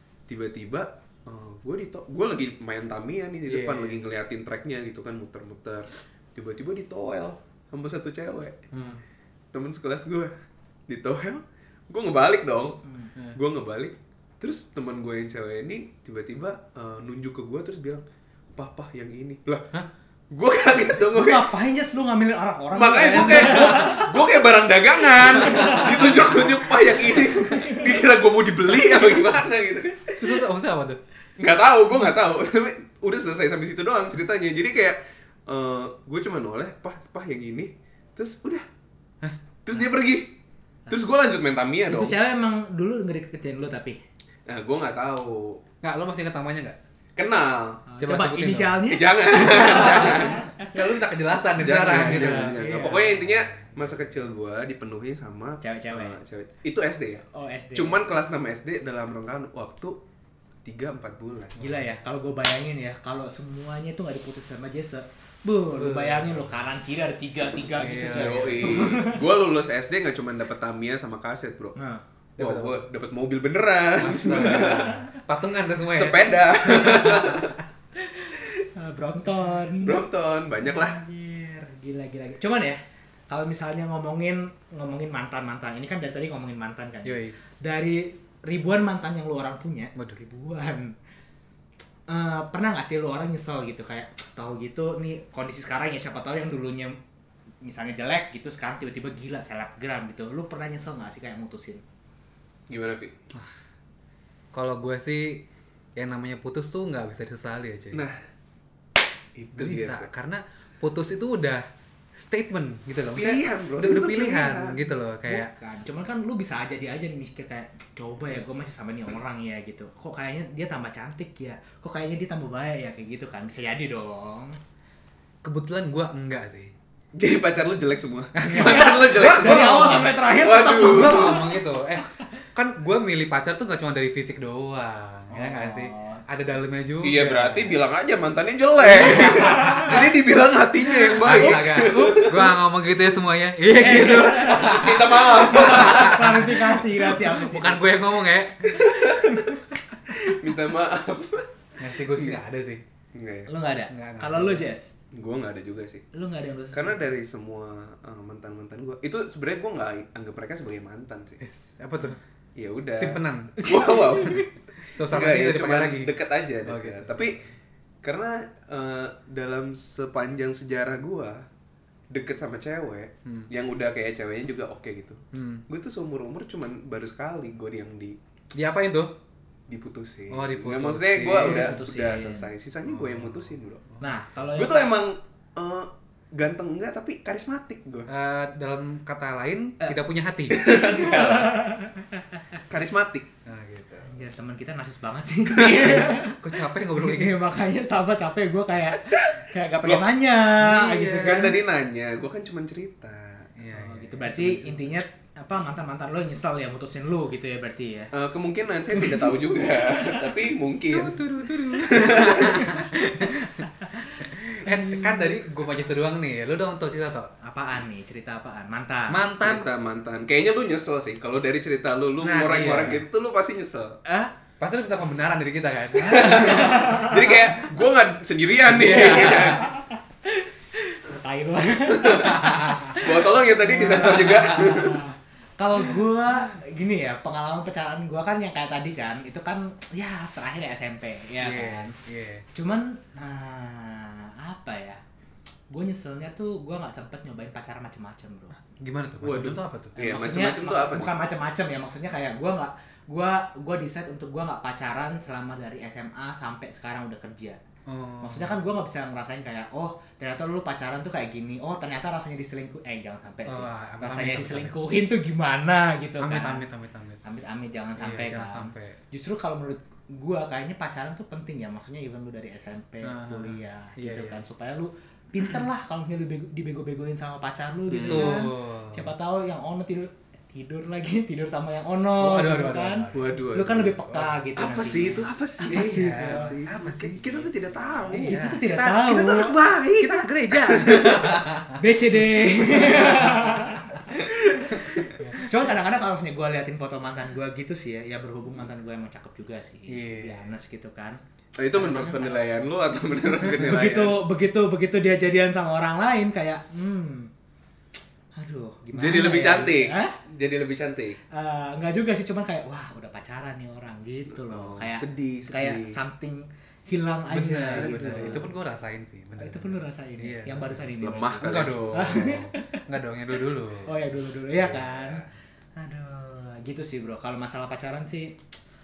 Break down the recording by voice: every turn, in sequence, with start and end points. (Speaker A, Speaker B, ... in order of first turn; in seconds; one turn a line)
Speaker A: 0.3-8.6
Speaker B: 3.5-4.1
Speaker B: 8.7-9.0
Speaker A: 9.5-10.3
Speaker A: 10.9-12.8
Speaker A: 13.3-18.0
Speaker A: 18.5-19.7
Speaker A: 20.3-21.5
Speaker C: 21.1-24.1
Speaker A: 22.7-30.4
Speaker B: 23.2-23.9
Speaker C: 25.4-26.2
Speaker B: 25.6-25.9
Speaker C: 27.4-27.8
Speaker B: 30.2-31.0
Speaker A: 31.4-38.6
Speaker A: 39.6-40.3
Speaker A: 40.9-42.1
Speaker C: 41.9-44.0
Speaker A: 44.5-45.6
Speaker B: 45.8-46.8
Speaker A: 47.1-47.8
Speaker C: 47.9-50.7
Speaker B: 48.0-48.9
Speaker A: 48.9-50.4
Speaker B: 49.7-53.9
Speaker A: 51.6-60.0
Speaker C: 51.9-53.1
Speaker C: 55.6-56.2
Speaker C: 57.3-58.0
Speaker A: 60.6-61.6
Speaker C: 61.6-69.2
Speaker B: 61.6-61.9
Speaker B: 65.8-66.5
Speaker B: 67.8-68.8
Speaker A: 68.1-71.8
Speaker C: 71.8-72.0
Speaker B: 72.4-72.8
Speaker A: 72.4-75.0
Speaker B: 74.0-77.6
Speaker C: 74.5-74.8
Speaker A: 75.9-77.5
Speaker C: 78.0-80.0
Speaker A: 79.8-81.0
Speaker C: 80.6-90.9
Speaker B: 87.0-87.4
Speaker B: 90.0-90.2
Speaker C: 92.1-97.0
Speaker C: 97.6-101.8
Speaker A: 102.7-103.2
Speaker B: 104.5-105.4
Speaker B: 106.0-108.0
Speaker A: 107.9-108.2
Speaker A: 109.4-110.1
Speaker B: 109.6-115.5
Speaker A: 113.1-114.8
Speaker C: 115.3-124.6
Speaker B: 125.4-126.7
Speaker A: 127.1-131.4
Speaker B: 128.4-130.1
Speaker C: 128.5-131.4
Speaker B: 130.8-137.8
Speaker C: 135.3-136.2
Speaker A: 137.0-143.0
Speaker B: 138.9-140.0
Speaker C: 139.0-139.9
Speaker C: 141.1-142.5
Speaker B: 141.2-149.2
Speaker C: 143.8-147.8
Speaker A: 144.4-146.4
Speaker A: 148.7-149.4
Speaker A: 150.1-152.4
Speaker B: 151.8-152.8
Speaker A: 153.1-153.5
Speaker C: 153.5-154.9
Speaker B: 153.9-154.7
Speaker A: 155.1-156.1
Speaker C: 156.1-157.0
Speaker A: 156.7-161.4
Speaker B: 161.4-162.2
Speaker A: 162.6-164.5
Speaker B: 162.9-163.6
Speaker C: 163.6-164.4
Speaker B: 164.9-166.1
Speaker A: 165.0-167.4
Speaker B: 166.6-167.5
Speaker A: 168.0-171.5
Speaker A: 172.1-178.2
Speaker B: 175.3-175.6
Speaker B: 178.5-179.1
Speaker A: 179.7-183.8
Speaker B: 180.3-181.8
Speaker C: 181.2-182.5
Speaker B: 182.9-184.0
Speaker C: 184.0-184.9
Speaker A: 184.5-188.1
Speaker B: 188.1-190.6
Speaker A: 190.5-191.7
Speaker C: 190.7-192.2
Speaker A: 192.7-193.3
Speaker B: 193.5-194.1
Speaker C: 194.0-201.6
Speaker B: 195.9-197.4
Speaker B: 200.6-201.5
Speaker A: 201.2-203.5
Speaker B: 203.6-204.9
Speaker C: 203.7-208.1
Speaker A: 208.1-211.2
Speaker C: 208.9-209.3
Speaker B: 210.9-217.3
Speaker A: 211.8-212.7
Speaker C: 212.5-212.8
Speaker C: 214.6-215.3
Speaker C: 217.4-219.2
Speaker B: 219.1-219.7
Speaker A: 219.4-224.0
Speaker B: 222.2-223.0
Speaker B: 224.1-227.3
Speaker A: 226.0-229.6
Speaker C: 226.2-227.1
Speaker B: 228.7-229.6
Speaker C: 228.9-241.9
Speaker A: 231.9-235.0
Speaker B: 232.4-232.8
Speaker B: 233.9-234.8
Speaker B: 241.4-242.4
Speaker C: 242.5-245.0
Speaker C: 245.7-248.6
Speaker B: 248.8-250.0
Speaker A: 249.2-251.1
Speaker C: 250.0-257.6
Speaker B: 257.9-258.6
Speaker C: 258.2-266.6
Speaker B: 263.5-264.8
Speaker B: 266.2-267.2
Speaker C: 267.2-286.5
Speaker B: 268.0-269.0
Speaker B: 273.0-274.4
Speaker A: 277.9-278.4
Speaker B: 278.0-279.1
Speaker B: 282.2-283.4
Speaker A: 283.1-284.0
Speaker B: 284.1-289.2
Speaker A: 284.6-291.5
Speaker C: 288.1-289.5
Speaker B: 290.0-291.8
Speaker C: 291.8-301.2
Speaker B: 292.6-294.3
Speaker B: 299.9-300.4
Speaker A: 301.6-304.2
Speaker C: 301.7-302.4
Speaker C: 303.4-307.3
Speaker C: 308.4-310.1
Speaker A: 308.9-311.2
Speaker C: 311.3-318.5
Speaker A: 314.3-316.0
Speaker B: 317.3-320.8
Speaker A: 317.7-318.5
Speaker C: 319.4-322.8
Speaker A: 321.0-322.3
Speaker B: 321.4-323.9
Speaker C: 323.9-325.2
Speaker B: 324.5-325.3
Speaker C: 325.8-328.3